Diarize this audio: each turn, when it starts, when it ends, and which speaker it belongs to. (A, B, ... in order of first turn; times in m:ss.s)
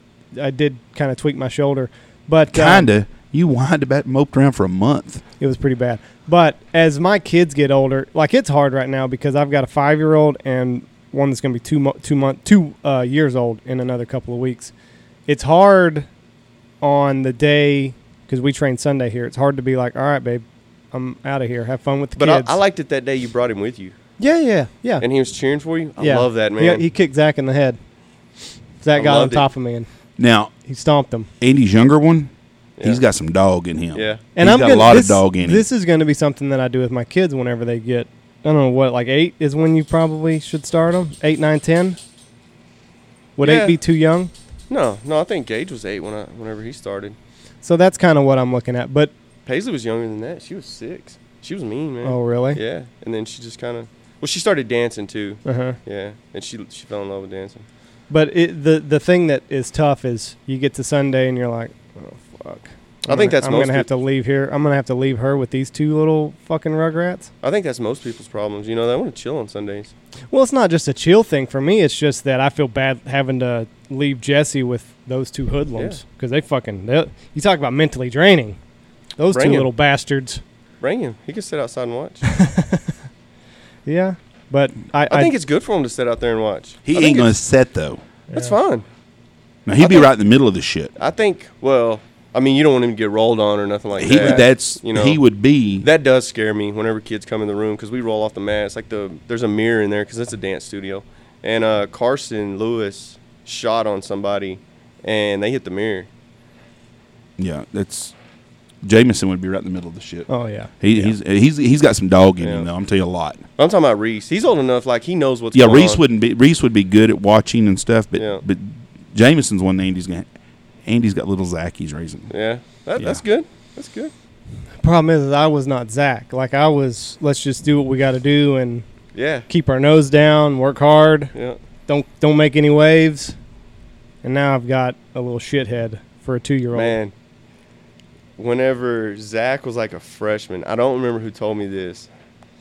0:00.4-0:02.9 A
0:02.5-0:05.2 B
0:05.4-0:14.7 A
0:15.3-0:16.1 A
0:16.8-0:22.6 A
0:22.2-0:24.0 C
0:24.2-0:25.1 A
0:25.0-0:26.8 C
0:26.0-0:27.8 A
0:28.8-0:29.9 A
0:29.0-0:29.5 C
0:30.2-0:30.5 B
0:30.7-0:31.3 A
0:31.4-0:35.7 B
0:33.9-0:34.2 C
0:34.4-0:42.0 A
0:43.4-0:44.3 A
0:43.4-0:43.8 C
0:44.7-0:47.2 C
0:47.6-0:49.1 A
0:49.5-0:57.6 C
0:52.0-0:52.6 A
0:55.5-0:55.8 A
0:58.1-1:07.3 A
1:03.1-1:03.9 C
1:07.4-1:09.9 C
1:10.3-1:18.6 A
1:19.2-1:20.4 A
1:19.3-1:19.7 C
1:20.8-1:22.2 C
1:22.3-1:22.9 A
1:23.9-1:25.3 A
1:25.1-1:27.4 C
1:26.9-1:28.0 B
1:28.3-1:28.8 C
1:29.7-1:30.9 B
1:29.8-1:30.1 C
1:31.0-1:35.2 C
1:34.0-1:35.9 B
1:34.2-1:34.4 A
1:35.8-1:46.1 C
1:47.4-1:48.2 B
1:48.8-1:50.3 B
1:50.3-1:50.7 A
1:50.8-1:53.4 B
1:52.4-1:52.7 C
1:53.6-1:56.0 C
1:55.5-2:00.3 B
1:58.2-1:58.4 C
2:00.8-2:02.3 B
2:02.3-2:04.1 C
2:03.0-2:03.2 B
2:04.8-2:08.9 A
2:09.1-2:09.5 C
2:09.5-2:11.3 A
2:11.9-2:13.4 A
2:14.2-2:17.0 A
2:16.7-2:17.1 C
2:18.4-2:22.1 C